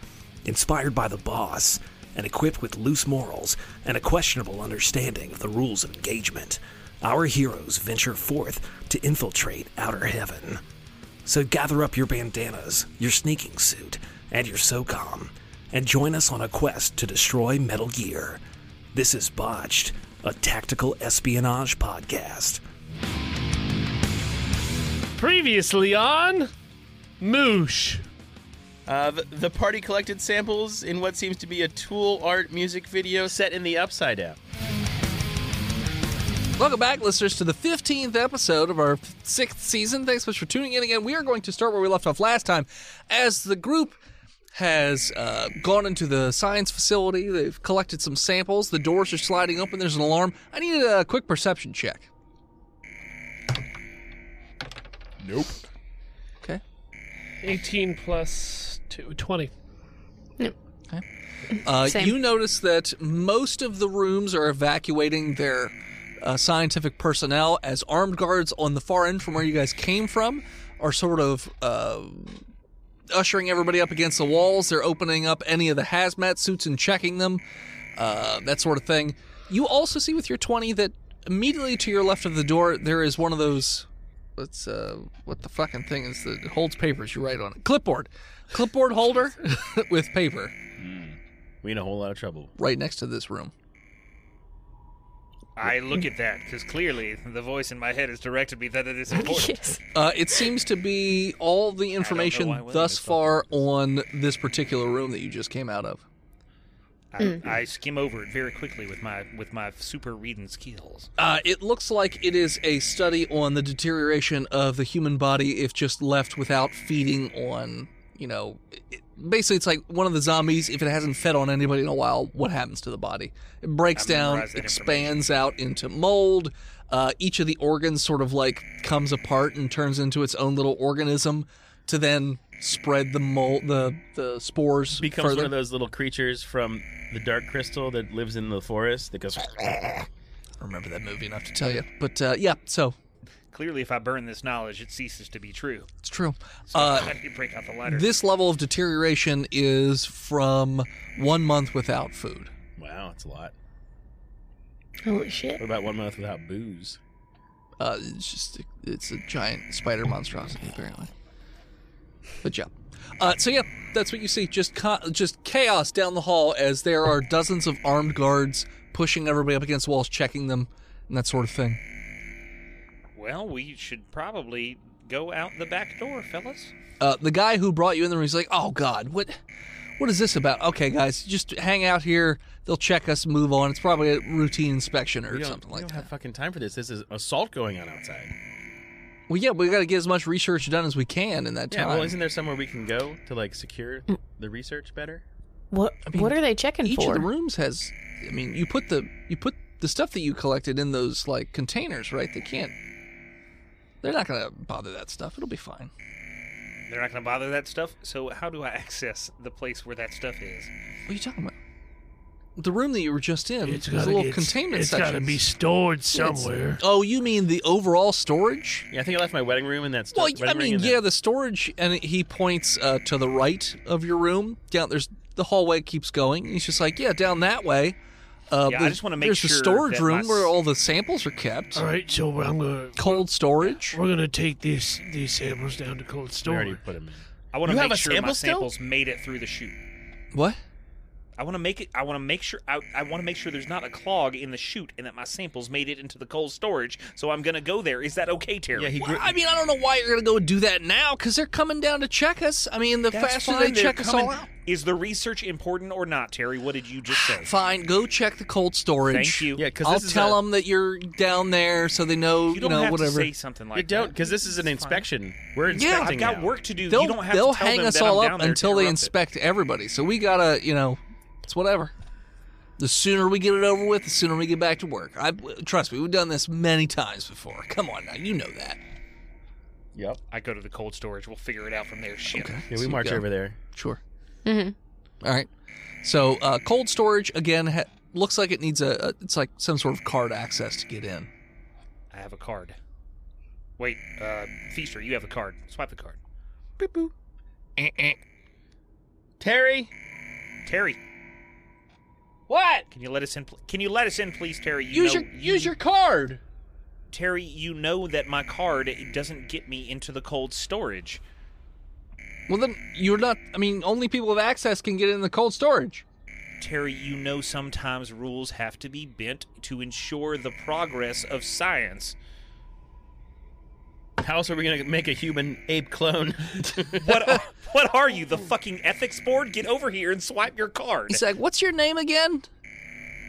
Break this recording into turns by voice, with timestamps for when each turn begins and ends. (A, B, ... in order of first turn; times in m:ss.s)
0:00.4-0:10.6 A
0:11.2-0:18.4 A
0:18.9-0:22.6 A
0:25.1-0:26.5 B
0:27.2-0:28.0 B
0:28.8-0:34.4 C
0:36.6-0:44.0 D
0:44.5-0:52.1 D
0:55.2-0:55.6 C
0:57.4-0:59.5 B
1:01.6-1:12.4 D
1:01.7-1:02.1 E
1:13.1-1:17.4 D
1:18.0-1:30.5 D
1:30.8-1:32.5 C
1:32.6-1:33.5 D
1:35.6-1:39.6 F
1:39.1-1:39.8 E
1:39.9-1:46.0 D
1:42.0-1:43.6 F
1:47.1-1:51.1 F
1:51.2-2:15.5 D
2:03.9-2:05.2 F
2:15.0-2:20.1 C
2:20.6-2:23.0 D
2:23.5-2:25.9 F
2:26.0-2:27.2 D
2:26.7-2:28.1 F
2:27.8-2:32.5 D
2:32.8-2:33.5 C
2:35.0-2:35.6 E
2:35.6-2:37.0 C
2:37.8-2:41.1 D
2:42.4-2:51.8 D
2:53.1-2:56.7 F
2:57.0-2:59.4 D
3:00.0-3:06.1 D
3:05.3-3:08.3 C
3:09.3-3:12.2 D
3:11.7-3:15.2 C
3:15.7-3:17.3 E
3:16.1-3:22.7 D
3:24.0-3:25.9 D
3:26.9-3:30.7 F
3:31.1-3:31.5 D
3:32.6-3:35.4 D
3:33.6-3:36.8 B
3:36.8-3:38.9 D
3:38.9-3:41.0 C
3:40.1-3:48.0 D
3:48.5-3:51.8 D
3:48.6-3:50.5 F
3:51.8-3:53.2 B
3:53.0-3:54.0 D
3:53.9-3:56.8 B
3:56.4-3:58.7 C
3:57.5-3:59.8 F
4:00.3-4:00.6 D
4:01.4-4:08.9 F
4:08.7-4:09.3 C
4:09.0-4:14.5 D
4:13.1-4:17.5 F
4:17.1-4:23.3 D
4:19.1-4:19.6 F
4:19.6-4:20.4 C
4:22.5-4:25.1 F
4:23.7-4:26.5 C
4:25.6-4:29.1 F
4:25.7-4:26.3 D
4:26.8-4:31.9 D
4:32.8-4:38.8 D
4:39.9-4:40.2 C
4:40.3-4:42.6 F
4:42.3-4:44.0 D
4:42.7-4:43.6 C
4:44.4-4:44.7 E
4:45.2-4:45.5 D
4:46.0-4:51.3 D
4:52.1-4:52.8 F
4:53.8-4:56.2 F
4:56.8-4:57.1 C
4:57.8-4:58.2 D
4:59.4-4:59.9 C
5:00.6-5:01.0 F
5:02.5-5:02.8 C
5:02.9-5:05.7 F
5:04.9-5:06.4 D
5:07.1-5:11.2 F
5:12.5-5:16.0 D
5:16.6-5:22.1 F
5:24.2-5:27.3 C
5:27.0-5:31.2 F
5:31.1-5:32.5 D